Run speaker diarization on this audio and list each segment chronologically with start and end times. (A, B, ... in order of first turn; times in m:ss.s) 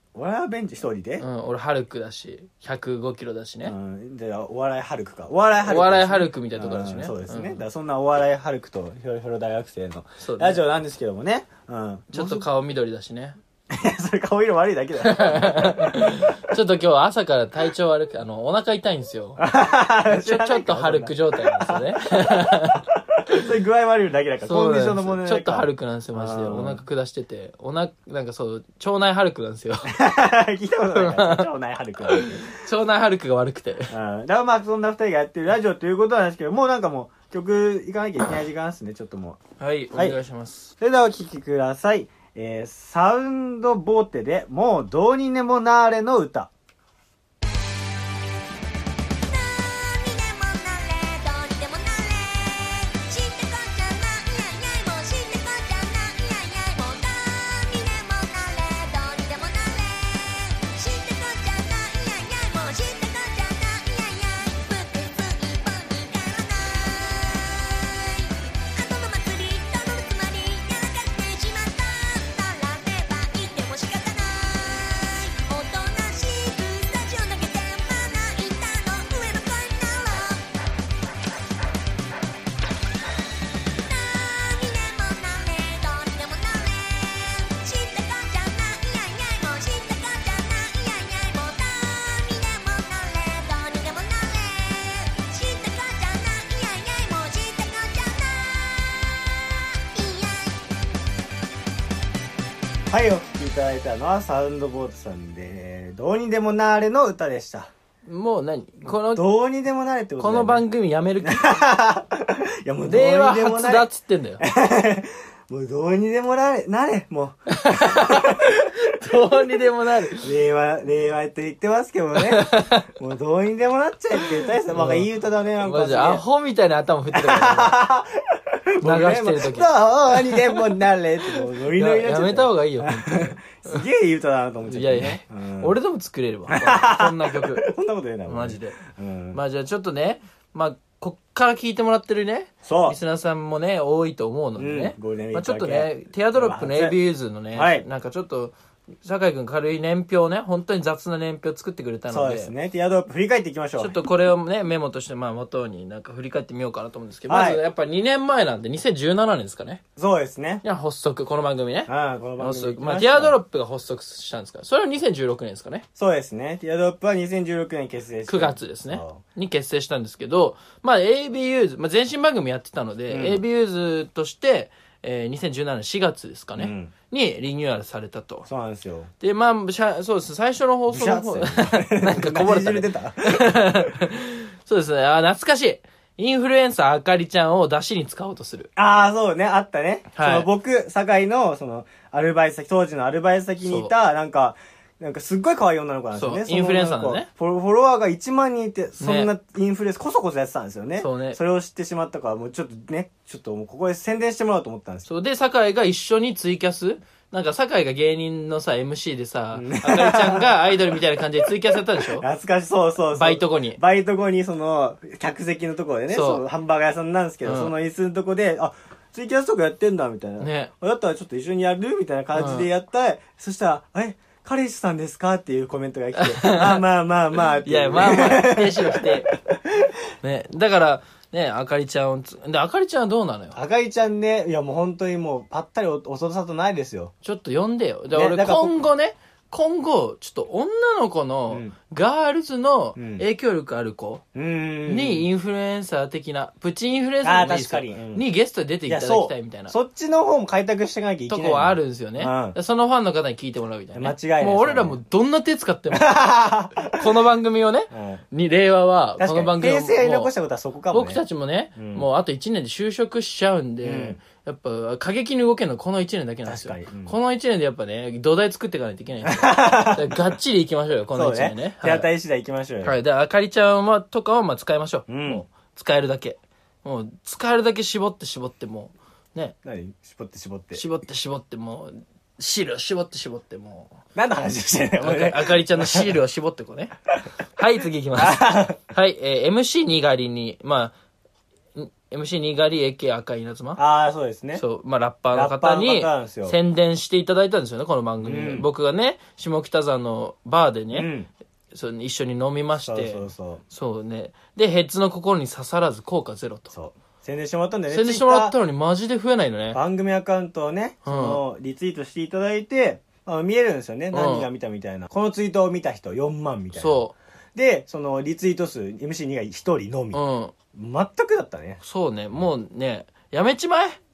0:00.2-0:01.3 A
0:01.2-0:03.7 B
0:03.6-0:12.4 A
0:05.6-0:07.6 B
0:10.2-0:10.6 B
0:12.1-0:13.4 B
0:13.7-0:16.2 A
0:15.0-0:19.4 B
0:19.4-0:26.8 A
0:20.1-0:23.4 B
0:24.4-0:30.0 B
0:29.9-0:32.5 A
0:31.0-0:31.5 B
0:32.1-0:33.9 B
0:33.9-0:39.4 A
0:39.6-0:40.7 B
0:40.8-0:46.5 A
0:49.2-1:20.4 C
1:23.8-1:39.3 C
1:39.9-1:40.6 C
1:42.9-1:47.7 A
1:48.1-1:49.2 B
1:48.8-1:50.6 A
1:50.2-1:51.6 B
1:51.2-1:53.9 A
1:52.9-1:54.4 B
1:54.4-1:58.7 A
1:57.5-2:00.3 B
2:00.2-2:06.2 A
2:02.2-2:02.9 B
2:04.2-2:05.1 B
2:05.6-2:07.8 B
2:07.1-2:08.1 A
2:08.7-2:15.8 A
2:08.8-2:10.7 B
2:11.7-2:13.8 B
2:14.7-2:17.7 B
2:16.5-2:19.4 A
2:18.3-2:18.8 B
2:19.3-2:32.5 B
2:22.6-2:23.0 A
2:24.6-2:27.0 A
2:27.5-2:27.8 A
2:32.1-2:34.0 A
2:33.8-2:39.8 B
2:37.3-2:37.6 A
2:40.0-2:40.6 A
2:40.6-2:45.8 B
2:41.9-2:43.4 A
2:46.0-2:49.2 A
2:48.3-2:58.5 B
2:53.1-2:53.4 A
2:56.6-2:56.9 A
2:58.5-2:59.1 A
2:59.2-3:08.7 B
3:00.9-3:03.9 A
3:08.8-3:25.1 A
3:10.2-3:10.5 B
3:13.6-3:13.9 B
3:16.2-3:17.3 B
3:19.0-3:19.3 B
3:21.0-3:21.4 B
3:25.1-3:32.2 B
3:29.5-3:30.8 A
3:32.0-3:49.8 A
3:33.1-3:33.8 B
3:36.1-3:36.4 B
3:37.4-3:37.7 B
3:40.4-3:40.7 B
3:42.4-3:42.7 B
3:46.2-3:46.8 B
3:47.4-3:49.3 B
3:50.2-3:53.6 B
3:53.6-3:57.1 A
3:57.2-4:04.2 B
3:58.1-3:58.8 A
4:01.5-4:01.8 A
4:03.0-4:03.2 A
4:04.4-4:05.3 A
4:04.9-4:09.7 B
4:07.2-4:08.2 A
4:08.9-4:12.6 A
4:11.3-4:16.2 B
4:14.0-4:15.0 A
4:15.9-4:17.1 A
4:16.8-4:20.3 B
4:17.9-4:18.2 A
4:19.2-4:21.2 A
4:20.9-4:32.1 B
4:21.8-4:22.0 A
4:23.8-4:24.2 A
4:26.5-4:27.2 A
4:29.2-4:30.2 A
4:31.2-4:33.0 A
4:32.8-4:39.6 B
4:35.1-4:35.5 A
4:39.6-4:40.8 A
4:40.7-4:43.9 B
4:44.2-4:46.1 A
4:45.0-4:46.9 B
4:47.6-4:51.0 B
4:48.2-4:48.8 A
4:51.8-4:53.8 B
4:53.8-4:54.6 A
4:54.6-5:01.1 B
4:55.3-4:56.6 A
4:58.2-4:58.7 A
5:00.9-5:01.3 A
5:01.7-5:06.7 B
5:02.8-5:03.6 A
5:06.7-5:08.6 A
5:07.9-5:09.8 B
5:09.7-5:17.0 A
5:11.1-5:11.4 B
5:14.1-5:14.5 B
5:16.8-5:17.1 B
5:17.6-5:20.2 A
5:20.1-5:20.5 B
5:20.7-5:21.8 A
5:21.8-5:24.0 B